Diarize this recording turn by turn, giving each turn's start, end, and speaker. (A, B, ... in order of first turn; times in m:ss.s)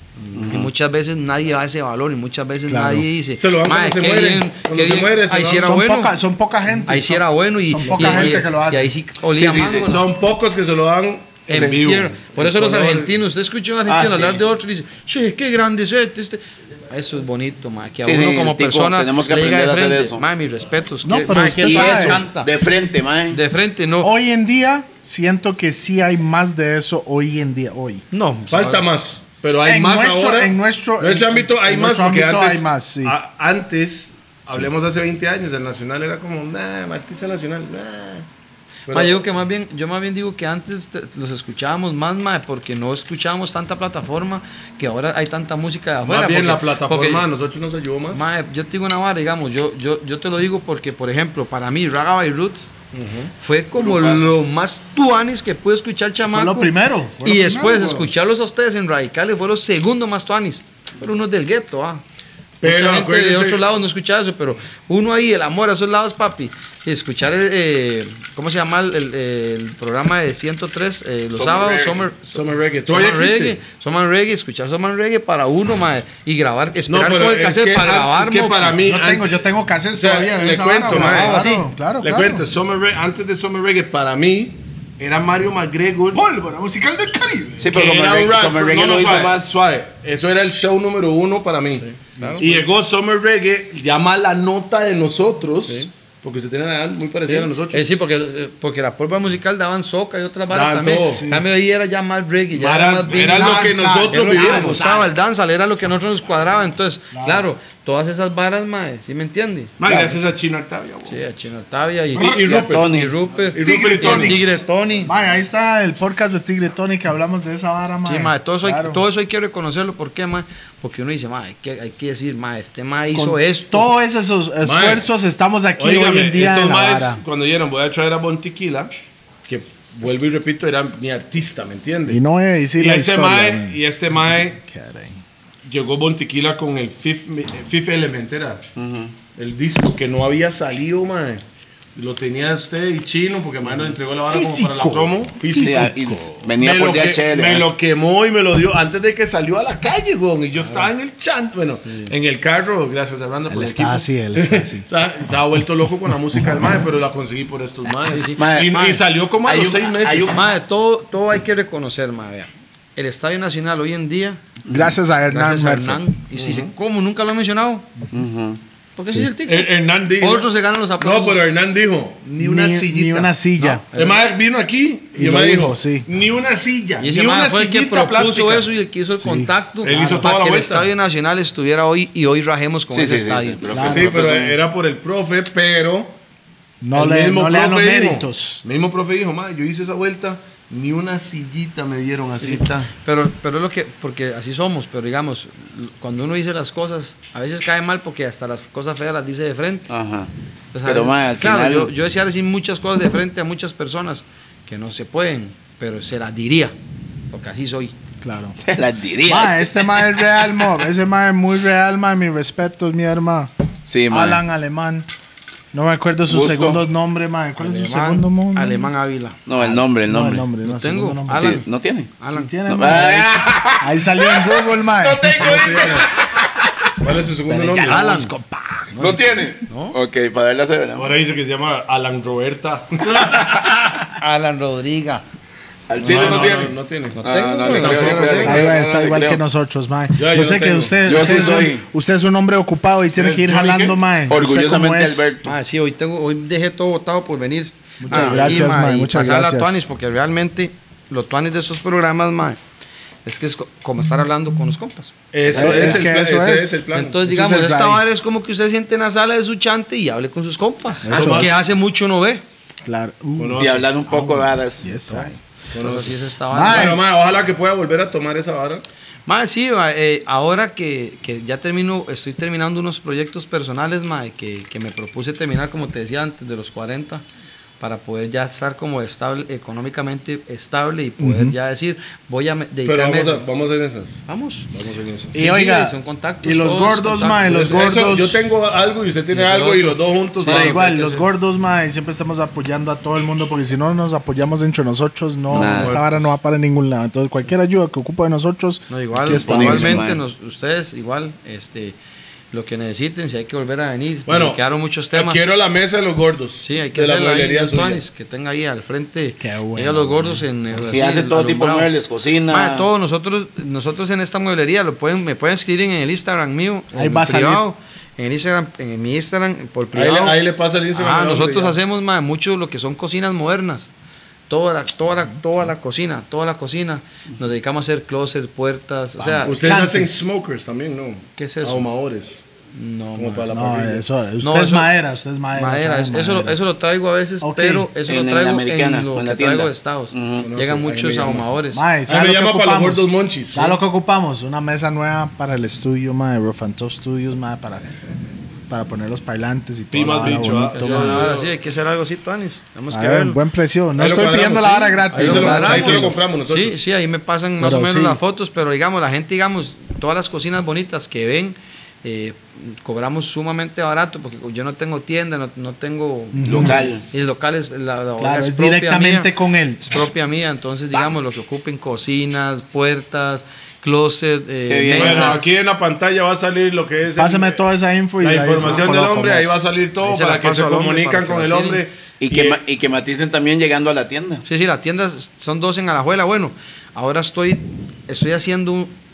0:00.2-0:00.6 A
0:00.3-0:00.7 B
0:00.4-0:06.2 C
0:02.7-0:03.1 D
0:03.4-0:05.7 A
0:05.6-0:08.9 D
0:06.8-0:10.0 C
0:07.9-0:08.4 A
0:09.3-0:09.9 B
0:09.8-0:13.1 A
0:11.5-0:22.5 C
0:13.8-0:14.4 B
0:18.0-0:20.2 B
0:21.0-0:22.2 D
0:21.3-0:23.4 B
0:23.3-0:24.1 C
0:24.0-0:28.0 D
0:28.1-0:28.9 C
0:28.5-0:38.2 A
0:29.6-0:33.2 D
0:38.9-0:39.2 A
0:38.9-0:47.2 C
0:46.0-0:48.3 A
0:48.1-0:52.7 C
0:52.9-0:53.3 A
0:53.4-0:56.7 C
0:53.8-0:54.3 B
0:56.3-0:58.1 D
0:57.2-1:02.0 C
1:02.6-1:03.6 A
1:02.6-1:18.8 C
1:11.3-1:12.1 B
1:12.3-1:13.6 A
1:16.9-1:19.3 A
1:18.8-1:22.4 D
1:19.9-1:21.5 A
1:20.9-1:21.7 C
1:22.0-1:26.2 A
1:26.1-1:27.7 D
1:27.6-1:29.7 B
1:27.7-1:31.8 A
1:31.8-1:32.5 C
1:32.2-1:32.7 D
1:32.4-1:37.9 A
1:37.2-1:49.7 C
1:40.5-1:41.2 A
1:41.1-1:41.4 D
1:42.5-1:44.9 A
1:43.2-1:45.0 D
1:47.1-1:47.5 D
1:49.8-1:51.2 A
1:49.8-1:50.1 B
1:51.1-1:55.1 C
1:52.1-1:52.9 A
1:52.1-1:53.1 B
1:53.5-1:54.6 A
1:53.6-1:59.0 D
1:58.0-2:03.9 C
2:03.1-2:07.2 D
2:04.6-2:05.0 A
2:05.8-2:08.9 A
2:09.4-2:12.2 A
2:12.1-2:13.8 D
2:12.8-2:14.6 A
2:14.3-2:15.2 D
2:15.6-2:18.6 A
2:18.8-2:19.1 B
2:19.3-2:21.4 A
2:21.9-2:40.4 A
2:24.3-2:26.3 D
2:25.5-2:27.7 B
2:30.6-2:30.9 C
2:31.9-2:32.1 C
2:33.5-2:34.8 D
2:38.0-2:39.0 C
2:38.4-2:38.8 B
2:39.4-2:40.4 B
2:40.3-2:44.4 C
2:44.7-2:46.0 D
2:45.3-2:47.8 C
2:46.4-2:46.7 A
2:48.1-2:48.6 B
2:49.0-2:51.4 C
2:49.4-2:52.3 A
2:52.3-2:54.2 C
2:52.3-2:53.8 D
2:53.9-2:58.7 A
2:55.1-2:56.1 D
2:57.0-3:03.6 C
2:59.2-2:59.5 D
2:59.8-3:00.9 A
3:02.9-3:04.6 B
3:03.7-3:04.2 D
3:03.8-3:06.1 A
3:06.8-3:08.6 D
3:06.9-3:12.9 A
3:12.4-3:19.9 C
3:19.9-3:20.3 B
3:20.7-3:26.7 C
3:20.8-3:21.9 B
3:27.3-3:27.9 C
3:28.2-3:28.6 D
3:28.6-3:30.1 B
3:29.2-3:33.5 D
3:33.8-3:34.4 B
3:34.1-3:35.1 D
3:35.7-3:38.9 D
3:36.3-3:36.8 B
3:37.6-3:39.4 C
3:39.4-3:40.4 B
3:39.6-3:41.6 D
3:40.6-3:41.6 C
3:41.3-3:42.1 B
3:42.2-3:42.9 C
3:42.2-3:46.1 D
3:42.6-3:46.5 B
3:45.3-3:46.0 C
3:47.0-3:48.2 A
3:47.5-3:48.3 D
3:47.8-3:50.0 C
3:49.0-3:51.1 B
3:51.0-3:54.1 A
3:54.2-3:55.2 C
3:55.9-3:59.4 B
3:56.0-3:58.6 C
3:56.0-3:58.7 A
3:58.4-4:05.4 D
4:00.1-4:01.6 A
4:01.0-4:01.8 B
4:03.1-4:04.0 A
4:04.3-4:05.5 B
4:05.4-4:12.6 C
4:08.0-4:09.8 D
4:08.1-4:08.7 B
4:13.2-4:15.1 C
4:15.3-4:17.2 A
4:15.4-4:16.1 B
4:15.5-4:18.0 D
4:16.9-4:22.4 C
4:21.0-4:21.6 D
4:21.1-4:21.6 A
4:22.8-4:25.4 D
4:23.4-4:23.9 A
4:23.6-4:24.9 B
4:25.7-4:28.8 A
4:25.7-4:27.0 C
4:26.5-4:27.0 D
4:29.3-4:37.2 C
4:37.8-4:43.4 C
4:41.2-4:41.6 D
4:42.8-4:45.4 A
4:44.3-4:44.7 C
4:45.3-4:48.4 D
4:45.3-4:47.5 C
4:47.4-4:51.2 A
4:49.3-4:51.2 C
4:50.4-5:00.1 D
4:55.5-4:56.0 B
4:55.5-4:56.3 A
4:58.9-5:02.0 C
4:59.3-5:00.2 B
5:02.5-5:05.4 C
5:04.2-5:04.6 A
5:05.1-5:08.0 A
5:06.6-5:11.9 C
5:09.4-5:10.4 D
5:10.9-5:12.9 B
5:12.5-5:20.4 C
5:16.9-5:17.6 D
5:19.9-5:21.8 A
5:20.9-5:23.9 C
5:24.5-5:29.6 C
5:29.2-5:30.3 D
5:29.4-5:32.4 A
5:31.4-5:31.9 C
5:32.7-5:33.5 C
5:33.2-5:34.0 A
5:33.5-5:36.6 D
5:34.4-5:34.9 C
5:35.5-5:41.8 C
5:37.4-5:37.9 D
5:38.0-5:40.5 B
5:40.4-5:41.5 A
5:41.7-5:47.9 D
5:42.1-5:43.8 A
5:48.7-5:51.3 D
5:49.9-5:51.5 A
5:50.7-5:53.4 C
5:52.9-5:56.1 D
5:54.0-5:56.8 A
5:55.1-6:09.3 C
5:57.6-5:58.2 D
6:06.3-6:06.8 D
6:06.4-6:07.0 B
6:08.2-6:10.0 D
6:09.8-6:15.5 C
6:14.7-6:15.4 B
6:14.9-6:17.6 A
6:17.2-6:19.5 D
6:18.2-6:22.6 A
6:20.0-6:21.8 C
6:22.2-6:24.4 B
6:24.4-6:28.9 C